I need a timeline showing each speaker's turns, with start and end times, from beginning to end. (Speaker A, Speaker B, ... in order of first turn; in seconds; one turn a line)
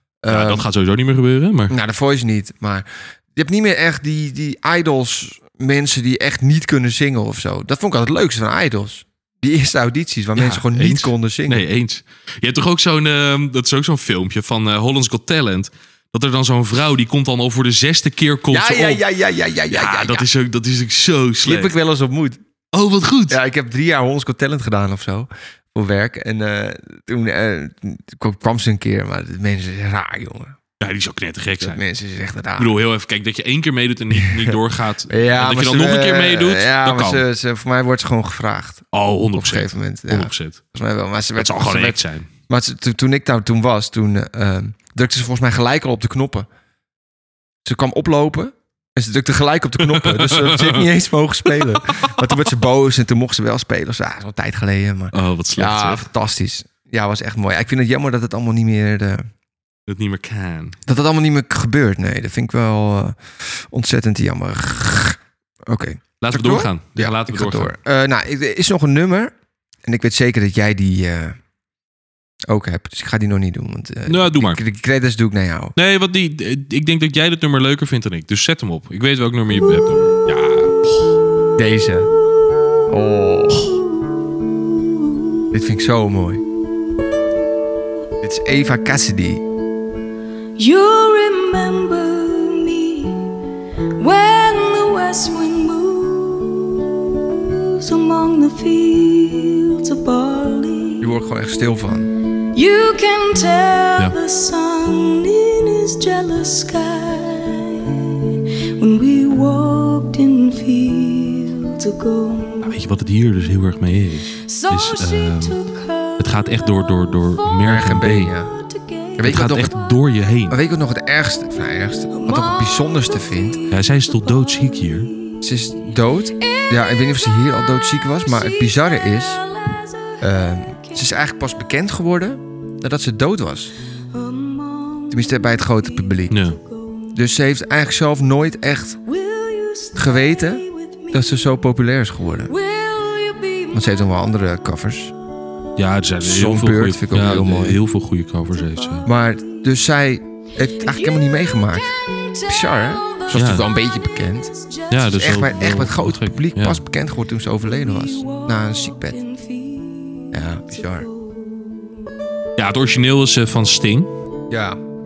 Speaker A: 0.2-0.7
Speaker B: 0.3-1.8
Speaker A: 1.7-11.7
Speaker B: 10.4-19.0
Speaker A: 18.5-20.3
Speaker B: 19.7-21.7
Speaker A: 21.4-22.4
Speaker B: 22.7-23.4
Speaker A: 23.3-30.6
Speaker B: 30.8-31.8
Speaker A: 31.6-32.7
Speaker B: 32.6-37.2
Speaker A: 34.1-34.6
Speaker A: 35.1-46.5
Speaker B: 38.9-40.6
Speaker B: 41.4-42.3
Speaker A: 47.6-59.3
Speaker B: 49.8-50.9
Speaker B: 55.1-56.1
Speaker B: 59.9-60.8
Speaker A: 60.9-69.3
Speaker B: 66.2-67.7
Speaker A: 69.9-71.4
Speaker A: 72.5-75.8
Speaker B: 74.1-74.6
Speaker B: 75.8-81.2
Speaker A: 81.6-82.1
Speaker A: 82.9-83.8
Speaker A: 85.5-86.4
Speaker A: 88.2-89.4
Speaker C: 90.6-93.3
Speaker C: 94.0-101.0
Speaker A: 101.0-102.1
Speaker C: 102.5-108.3
Speaker C: 108.8-112.7
Speaker B: 112.6-115.6
Speaker C: 114.5-116.2
Speaker B: 116.2-118.3
Speaker A: 117.6-118.5
Speaker C: 118.6-119.2
Speaker A: 119.2-119.7
Speaker B: 119.2-120.6
Speaker A: 120.5-123.7
Speaker C: 122.1-125.4
Speaker B: 123.7-125.1
Speaker A: 125.4-129.5
Speaker C: 126.5-127.0
Speaker C: 128.3-130.2
Speaker A: 130.2-133.7
Speaker C: 134.1-137.1
Speaker A: 135.1-136.4
Speaker B: 136.3-136.6
Speaker A: 137.1-139.0
Speaker C: 139.1-141.2
Speaker A: 140.0-142.5
Speaker C: 142.5-143.8
Speaker A: 143.7-145.1
Speaker B: 145.8-149.1
Speaker A: 146.2-147.8
Speaker C: 148.9-149.5
Speaker A: 149.0-159.2
Speaker C: 150.9-151.1
Speaker C: 152.2-153.3
Speaker B: 153.3-153.7
Speaker C: 154.6-154.8
Speaker B: 154.9-156.8
Speaker C: 157.7-162.2
Speaker A: 160.3-161.1
Speaker B: 162.6-164.1
Speaker A: 164.5-164.8